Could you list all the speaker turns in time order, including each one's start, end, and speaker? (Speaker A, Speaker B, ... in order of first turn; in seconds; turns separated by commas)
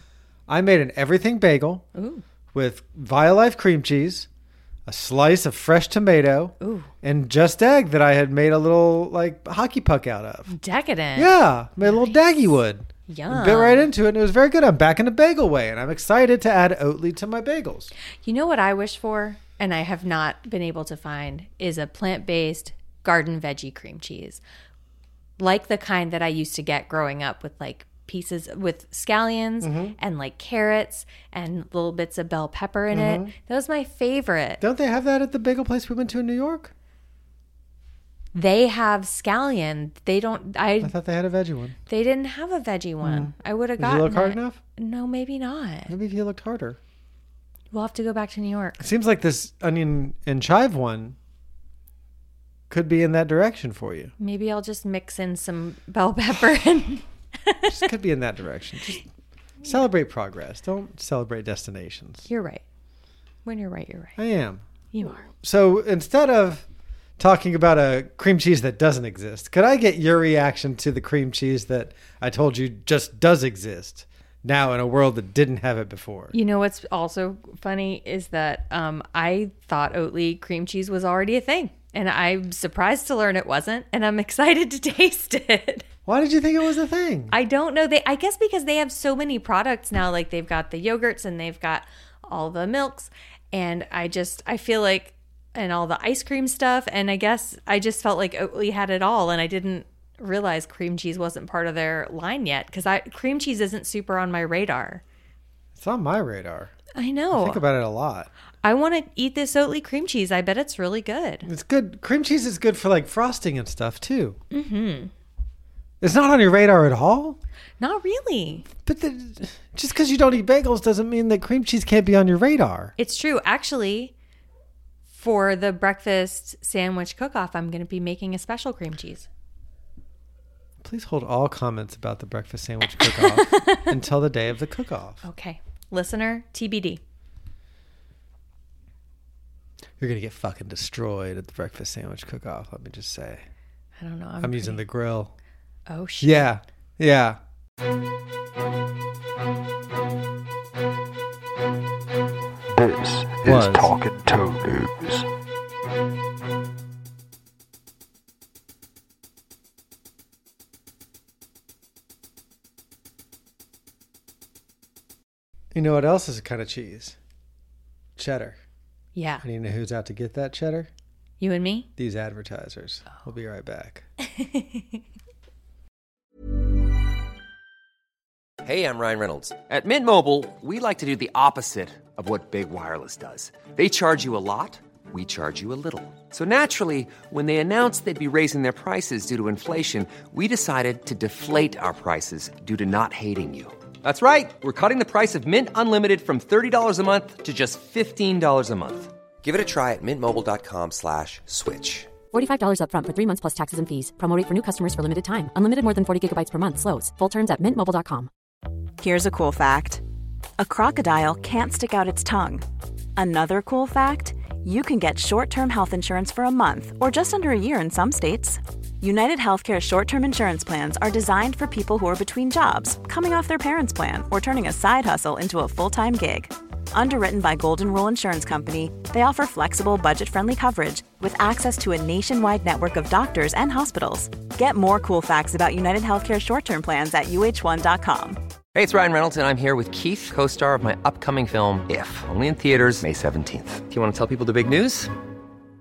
Speaker A: 0.5-1.9, Speaker B: 1.9-2.2, Speaker A: 2.5-4.3, Speaker A: 4.9-10.5, Speaker B: 6.6-6.9, Speaker B: 10.5-12.2, Speaker A: 11.2-17.9, Speaker B: 13.1-13.9, Speaker B: 18.2-24.4, Speaker B: 25.4-34.6, Speaker A: 29.6-30.0, Speaker A: 32.9-33.3, Speaker A: 34.6-36.7, Speaker B: 38.3-40.9, Speaker A: 40.8-41.8, Speaker B: 41.9-45.9, Speaker A: 43.0-44.6, Speaker A: 45.9-46.8, Speaker B: 47.7-48.8, Speaker A: 48.8-51.2, Speaker A: 52.7-54.1, Speaker B: 54.2-57.8, Speaker A: 57.7-59.1, Speaker A: 59.6-62.3, Speaker B: 62.3-62.6, Speaker B: 63.5-64.2, Speaker A: 64.2-64.6, Speaker B: 64.9-65.3, Speaker A: 65.2-66.7, Speaker A: 67.2-76.3, Speaker B: 76.3-85.9, Speaker A: 86.1-87.3, Speaker B: 87.3-105.0, Speaker A: 105.8-106.8, Speaker B: 107.0-107.6, Speaker A: 107.3-108.3, Speaker B: 108.6-111.5, Speaker A: 111.5-114.4, Speaker B: 114.5-115.1, Speaker A: 116.0-117.4, Speaker B: 117.8-118.7, Speaker A: 118.8-122.9, Speaker B: 123.0-124.1, Speaker B: 125.1-129.3, Speaker A: 130.8-135.2, Speaker B: 132.9-133.9, Speaker B: 135.2-137.0, Speaker A: 140.0-143.5, Speaker B: 144.0-144.8, Speaker A: 144.4-145.3, Speaker B: 145.9-146.5, Speaker A: 146.2-147.4, Speaker C: 152.7-155.3, Speaker A: 153.4-153.9, Speaker A: 165.7-167.2, Speaker A: 168.2-168.6, Speaker B: 169.2-169.4, Speaker A: 169.4-170.9, Speaker B: 171.4-171.9, Speaker A: 172.0-174.1, Speaker B: 174.3-175.0, Speaker D: 178.6-202.1, Speaker E: 202.3-208.3, Speaker F: 209.0-210.0, Speaker F: 210.6-238.4, Speaker D: 238.7-245.1